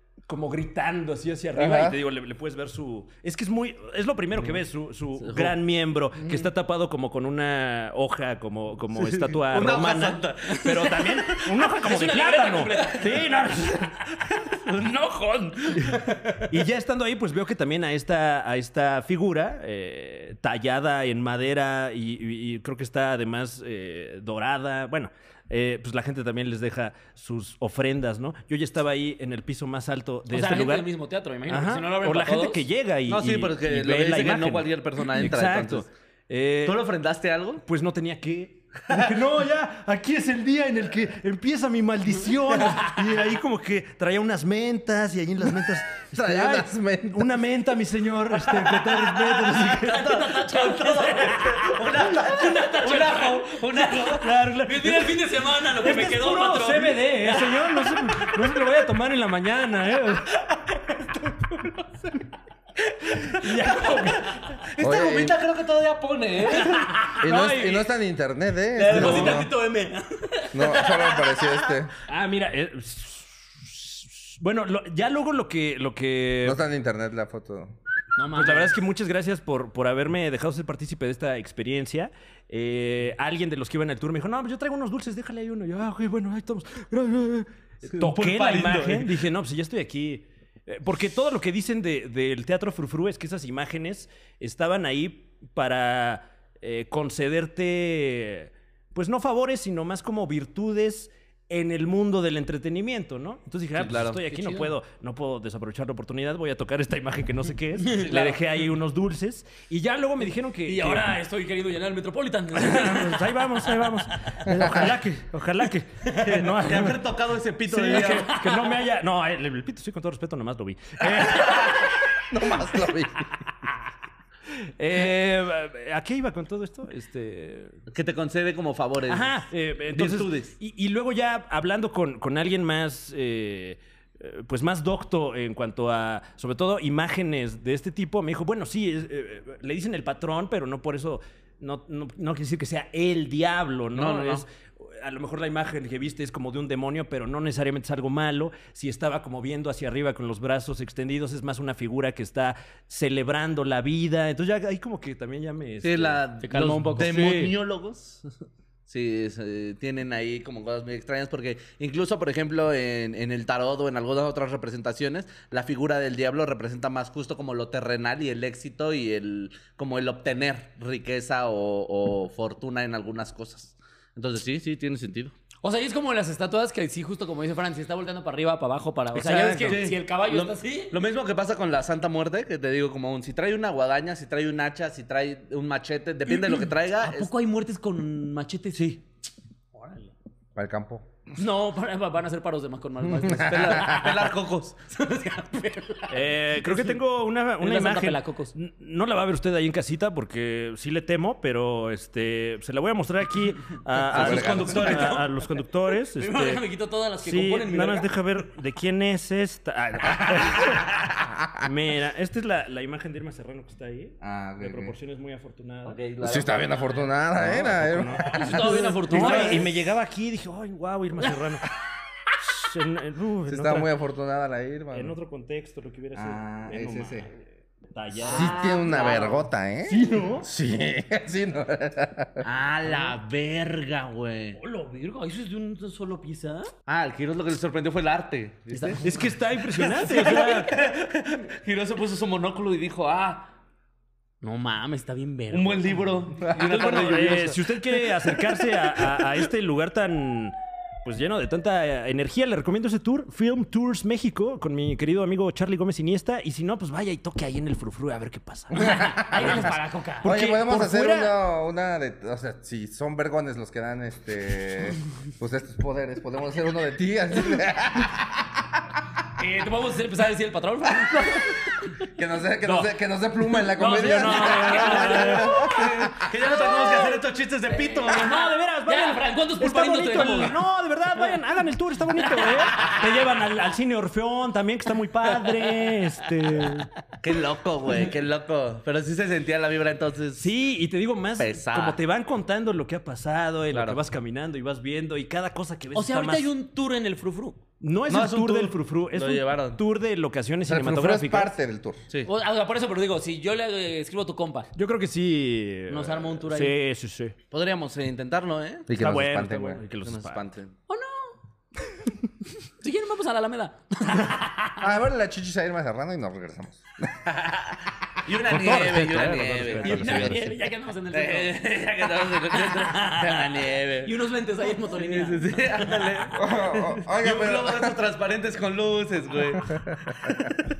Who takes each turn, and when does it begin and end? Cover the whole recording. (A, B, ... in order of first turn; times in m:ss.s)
0:00.3-0:14.0 A
0:01.5-0:02.0 B
0:04.4-0:04.6 C
0:05.2-0:05.5 C
0:09.3-0:11.6 C
0:11.8-0:13.3 D
0:14.3-0:16.4 C
0:15.7-0:30.9 A
0:30.3-0:32.6 D
0:31.5-0:36.9 A
0:33.1-0:35.9 C
0:36.6-0:37.6 C
0:37.6-0:50.3 A
0:38.9-0:39.2 C
0:46.1-0:47.3 B
0:48.5-0:54.3 C
0:49.6-0:51.6 D
0:52.0-0:53.1 A
0:52.2-0:53.9 D
0:53.8-1:00.6 A
0:54.6-0:57.8 D
1:02.8-1:07.0 C
1:03.3-1:04.5 A
1:04.8-1:05.4 B
1:06.6-1:07.4 D
1:07.2-1:09.5 B
1:07.2-1:07.8 A
1:08.7-1:11.6 D
1:08.9-1:09.4 A
1:10.5-1:11.9 B
1:12.1-1:16.6 A
1:16.4-1:17.8 B
1:18.2-1:18.7 D
1:18.3-1:51.1 A
1:27.9-1:29.1 C
1:43.7-1:44.2 C
1:44.3-1:44.7 D
1:47.8-1:48.2 D
1:48.0-1:48.4 C
1:50.6-1:53.4 D
1:52.6-1:57.1 A
1:56.1-1:58.5 C
1:57.6-2:02.0 A
1:57.9-1:58.6 D
2:02.3-2:03.3 B
2:04.5-2:07.8 A
2:07.9-2:09.3 C
2:09.1-2:37.6 A
2:09.9-2:10.5 C
2:23.9-2:24.4 C
2:35.8-2:38.2 C
2:36.4-2:37.2 D
2:38.9-2:55.3 C
2:55.6-3:01.0 D
2:59.1-2:59.9 A
2:59.6-3:07.3 C
3:06.3-3:09.0 D
3:08.7-3:09.0 C
3:09.7-3:10.1 D
3:10.6-3:11.0 B
3:11.4-3:14.3 D
3:13.2-3:14.8 C
3:14.9-3:17.0 D
3:16.1-3:26.6 A
3:17.6-3:18.5 D
3:24.1-3:25.2 C
3:24.1-3:25.0 B
3:24.5-3:25.2 D
3:26.2-3:28.1 D
3:27.2-3:36.0 A
3:34.2-3:34.9 B
3:35.8-3:37.0 C
3:36.2-3:39.6 B
3:37.4-3:38.5 A
3:38.3-3:39.7 D
3:39.1-3:41.7 A
3:39.2-3:39.6 C
3:42.4-3:43.9 A
3:43.5-3:45.1 B
3:44.9-3:48.6 A
3:46.1-3:47.3 B
3:48.2-3:50.4 D
3:48.3-3:49.3 C
3:48.3-3:52.4 B
3:49.9-3:50.3 A
3:52.4-3:54.6 C
3:52.9-3:53.1 D
3:54.5-3:56.7 D
3:56.8-3:59.1 C
3:58.7-3:59.2 D
3:59.0-4:00.7 A
3:59.7-4:03.5 C
4:04.4-4:06.0 D
4:05.5-4:09.2 C
4:06.4-4:21.3 A
4:18.8-4:19.6 B
4:18.8-4:20.3 D
4:20.2-4:28.6 B
4:29.4-4:31.7 D
4:32.0-4:36.2 B
4:33.7-4:35.5 D
4:34.0-4:35.6 A
4:35.6-4:38.4 C
4:37.7-4:40.6 D
4:38.1-4:46.9 A
4:42.4-4:43.0 D
4:47.2-4:50.5 C
4:50.4-4:56.5 A
4:51.4-4:52.0 C
4:53.7-4:54.0 C
4:55.9-4:57.6 D
4:57.8-5:01.5 A
4:58.1-4:59.8 C
5:00.7-5:02.0 B
5:02.2-5:04.7 D
5:04.7-5:07.3 A
5:05.9-5:06.7 D
5:07.5-5:08.9 C
5:08.9-5:09.8 B
5:08.9-5:10.4 A
5:10.0-5:10.7 C
5:10.9-5:11.4 D
5:12.8-5:14.8 D
5:14.8-5:17.2 B
5:17.3-5:20.4 C
5:18.4-5:20.5 A
5:19.8-5:21.6 D
5:21.1-5:24.1 C
5:22.4-5:26.2 D
5:24.8-5:30.6 C
5:26.3-5:28.0 B
5:29.8-5:30.4 B